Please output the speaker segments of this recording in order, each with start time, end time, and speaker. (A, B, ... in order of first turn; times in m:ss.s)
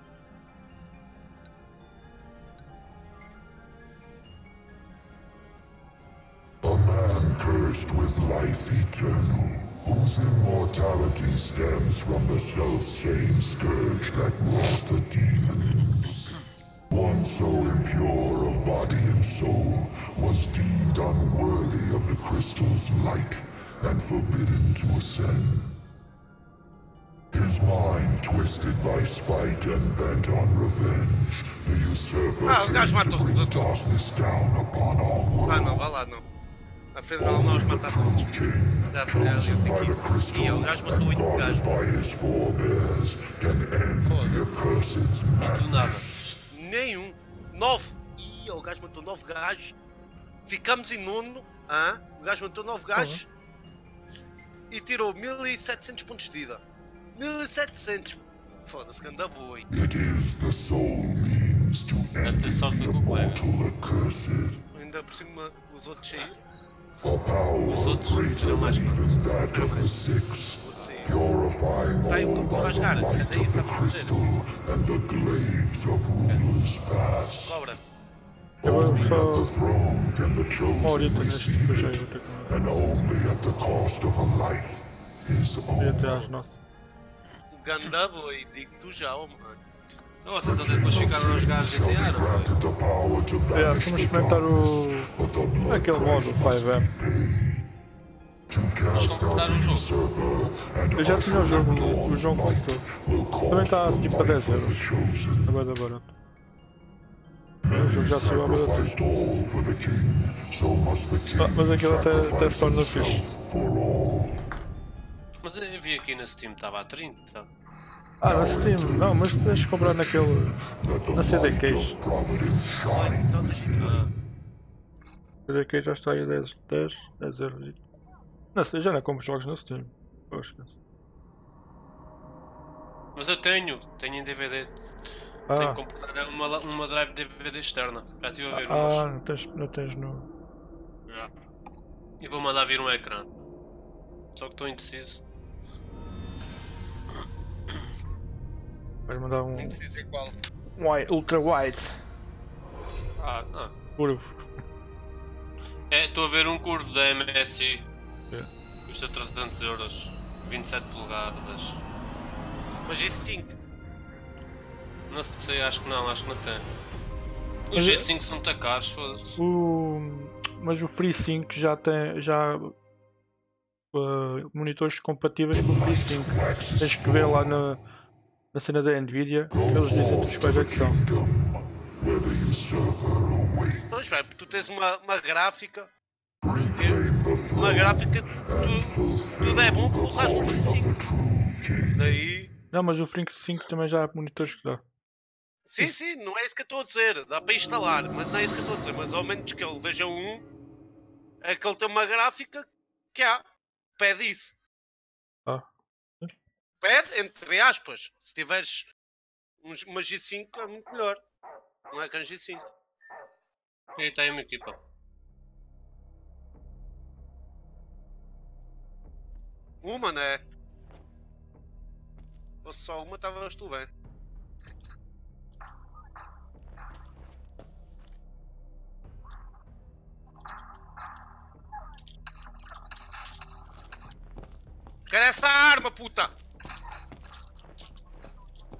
0:06.6-0:16.4 A
0:16.9-0:25.8 A
0:27.3-0:35.8 A
0:32.4-0:33.9 B
0:35.5-0:36.2 B
0:36.9-0:41.6 B
0:37.2-0:46.4 A
0:44.0-0:44.4 B
0:45.4-0:46.1 C
0:46.5-0:49.7 B
0:50.5-0:53.2 B
0:53.0-0:53.2 D
0:54.7-0:56.6 B
0:57.1-0:59.7 B
0:59.7-1:04.6 A
1:02.2-1:03.4 C
1:04.7-1:06.4 B
1:07.0-1:17.6 A
1:07.6-1:09.0 C
1:09.5-1:10.0 B
1:10.6-1:11.1 B
1:12.1-1:14.1 B
1:17.4-1:17.8 B
1:18.6-1:19.5 D
1:18.6-1:26.3 A
1:20.8-1:22.5 D
1:25.8-1:26.6 D
1:27.5-1:29.6 B
1:30.2-1:32.5 C
1:30.4-1:37.7 A
1:33.5-1:35.1 D
1:35.6-1:36.9 D
1:38.5-1:45.7 A
1:38.9-1:39.9 C
1:41.0-1:42.8 D
1:43.5-1:44.9 D
1:45.4-1:46.1 D
1:47.6-1:54.4 A
1:47.7-1:48.8 D
1:51.4-1:53.2 D
1:55.4-1:57.5 C
1:58.2-2:00.5 D
1:58.2-2:04.1 A
2:01.1-2:02.0 D
2:02.8-2:04.0 B
2:03.8-2:04.1 C
2:05.5-2:07.8 D
2:08.5-2:10.7 D
2:13.1-2:14.7 C
2:15.5-2:15.8 D
2:15.5-2:19.1 C
2:18.5-2:20.3 D
2:21.1-2:21.3 C
2:22.2-2:23.3 C
2:24.3-2:25.2 C
2:29.1-2:29.8 D
2:29.5-2:30.4 B
2:30.8-2:31.9 D
2:33.2-2:33.7 C
2:34.0-2:34.4 D
2:35.9-2:37.8 C
2:38.9-2:41.8 C
2:42.9-2:43.6 B
2:45.1-2:46.6 C
2:47.7-2:49.4 C
2:47.7-2:48.1 D
2:49.4-2:52.7 D
2:53.9-2:57.8 D
2:55.5-2:57.6 A
2:58.5-3:01.0 D
2:59.5-3:04.1 A
3:03.9-3:05.9 B
3:06.4-3:12.1 A
3:06.7-3:07.0 B
3:07.5-3:10.9 B
3:11.9-3:12.5 B
3:12.7-3:14.8 D
3:15.6-3:20.4 B
3:21.4-3:23.4 B
3:24.0-3:24.6 B
3:26.8-3:28.9 B
3:29.6-3:31.2 B
3:31.9-3:32.6 B
3:34.0-3:34.8 C
3:39.8-3:40.4 B
3:42.6-3:43.9 B
3:55.1-3:56.3 B